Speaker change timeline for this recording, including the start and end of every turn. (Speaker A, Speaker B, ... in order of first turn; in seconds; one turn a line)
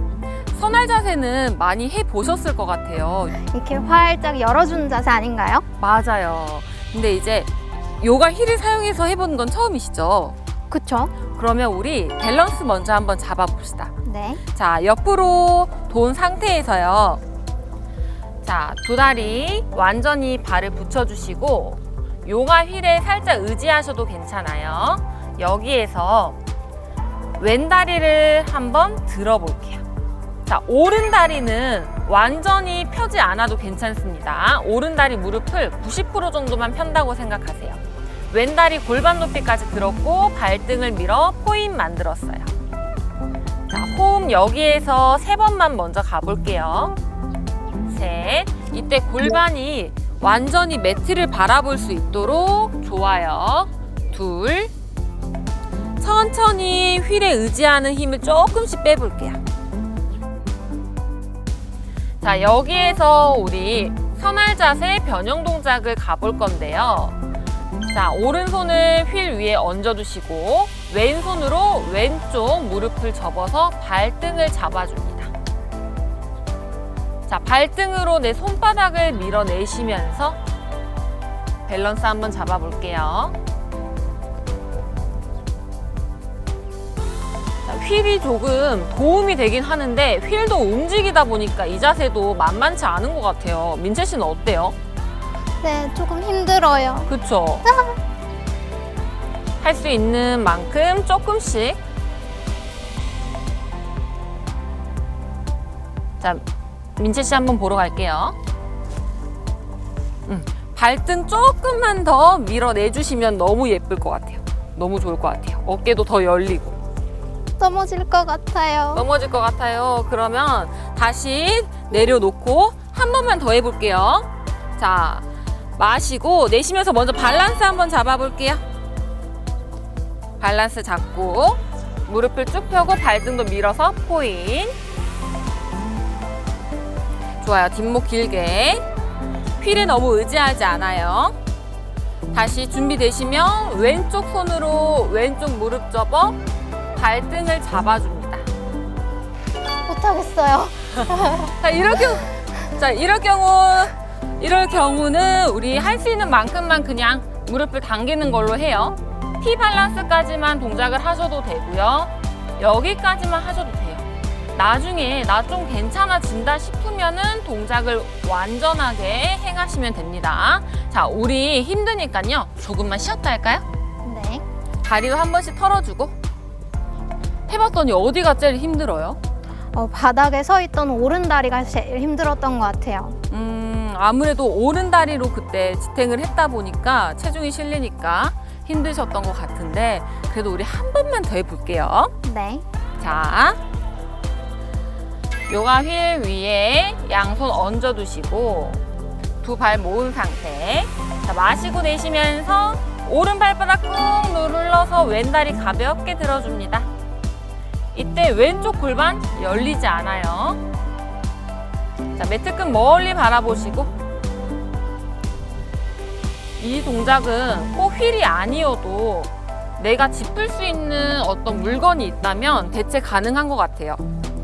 Speaker A: 0.5-3.4
Speaker B: 3.4-5.7
Speaker A: 5.8-10.3
Speaker B: 10.7-11.1
Speaker A: 11.3-13.9
Speaker B: 14.0-14.4
Speaker A: 14.5-17.2
Speaker A: 18.4-26.4
Speaker A: 27.4-29.8
Speaker A: 30.5-42.5
Speaker A: 43.7-47.0
Speaker A: 47.9-54.7
Speaker A: 56.0-59.4
Speaker A: 62.2-67.2
Speaker A: 67.9-75.3
Speaker A: 77.3-80.4
Speaker A: 81.7-83.3
Speaker A: 87.7-94.8
Speaker B: 95.6-97.1
Speaker A: 97.1-97.7
Speaker B: 97.7-98.0
Speaker A: 99.6-101.8
Speaker A: 107.0-108.4
Speaker A: 110.3-116.8
Speaker B: 117.6-119.0
Speaker A: 118.9-125.3
Speaker A: 125.8-128.6
Speaker A: 130.4-134.8
Speaker A: 137.4-138.9
Speaker A: 139.6-141.4
Speaker A: 142.3-146.4
Speaker A: 147.0-148.5
Speaker B: 149.9-151.5
Speaker A: 151.3-173.6
Speaker B: 174.0-174.4
Speaker A: 174.8-176.2
Speaker A: 177.5-179.2
Speaker B: 179.7-183.2
Speaker A: 183.3-192.1
Speaker B: 192.2-192.6
Speaker A: 193.0-193.6
Speaker A: 195.5-198.8
Speaker A: 199.4-206.9
Speaker A: 207.9-210.6
Speaker A: 212.2-213.9
Speaker A: 216.6-224.0